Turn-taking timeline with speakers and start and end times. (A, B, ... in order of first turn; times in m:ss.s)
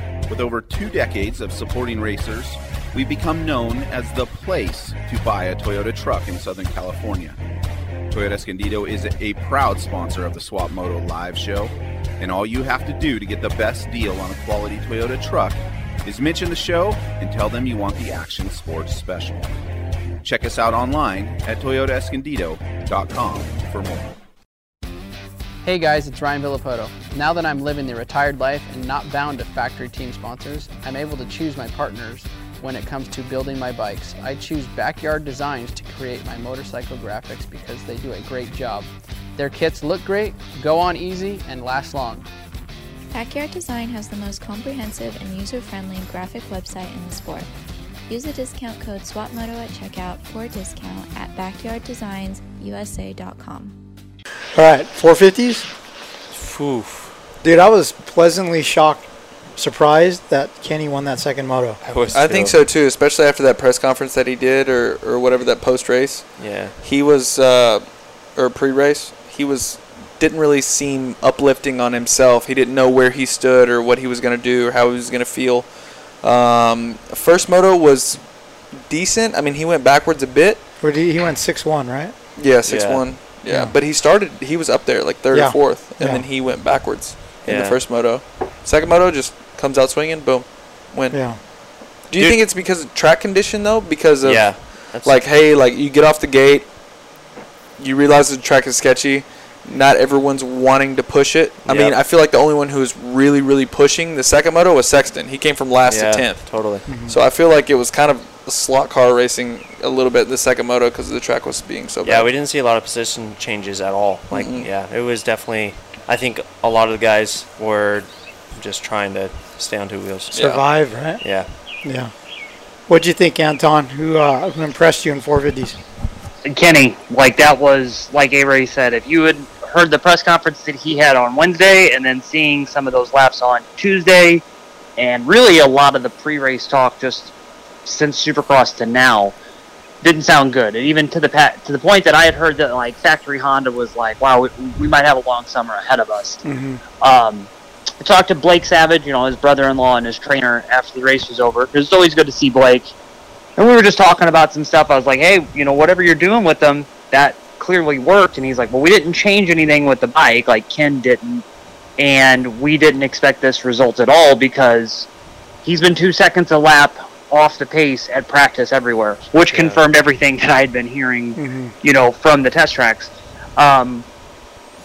0:00.3-0:07.4 A
0:08.1-0:19.5 A
0:20.2-0:24.1 A
0:25.6-0:42.2 B
0:43.1-0:47.5 C
0:48.1-0:53.7 C
0:54.5-0:55.7 D
0:56.3-0:57.1 E
0:57.4-0:59.0 D
0:59.6-1:01.8 D
1:01.8-1:02.6 E
1:02.1-1:07.8 F
1:06.4-1:06.8 E
1:08.3-1:15.7 F
1:16.2-1:18.2 F
1:18.8-1:20.6 F
1:20.8-1:22.1 D
1:22.4-1:31.2 F
1:22.7-1:23.0 E
1:23.5-1:23.7 D
1:25.3-1:26.2 D
1:27.4-1:27.8 E
1:31.1-1:31.4 D
1:32.1-1:36.7 F
1:34.2-1:35.2 E
1:37.8-1:52.3 F
1:41.6-1:42.0 E
1:45.8-1:46.8 E
1:46.9-1:47.2 D
1:52.0-2:00.5 E
1:54.3-1:54.7 F
2:00.3-2:00.6 F
2:00.4-2:01.2 D
2:01.2-2:01.5 E
2:01.8-2:02.1 D
2:02.9-2:05.8 D
2:06.4-2:14.4 G
2:15.0-2:17.3 G
2:17.8-2:19.3 G
2:20.0-2:26.4 G
2:26.4-2:26.8 D
2:27.0-2:27.5 G
2:28.0-2:32.9 G
2:33.6-2:41.4 G
2:42.0-2:45.1 G
2:45.6-2:54.0 G
2:49.5-2:49.8 E
2:51.4-2:51.7 D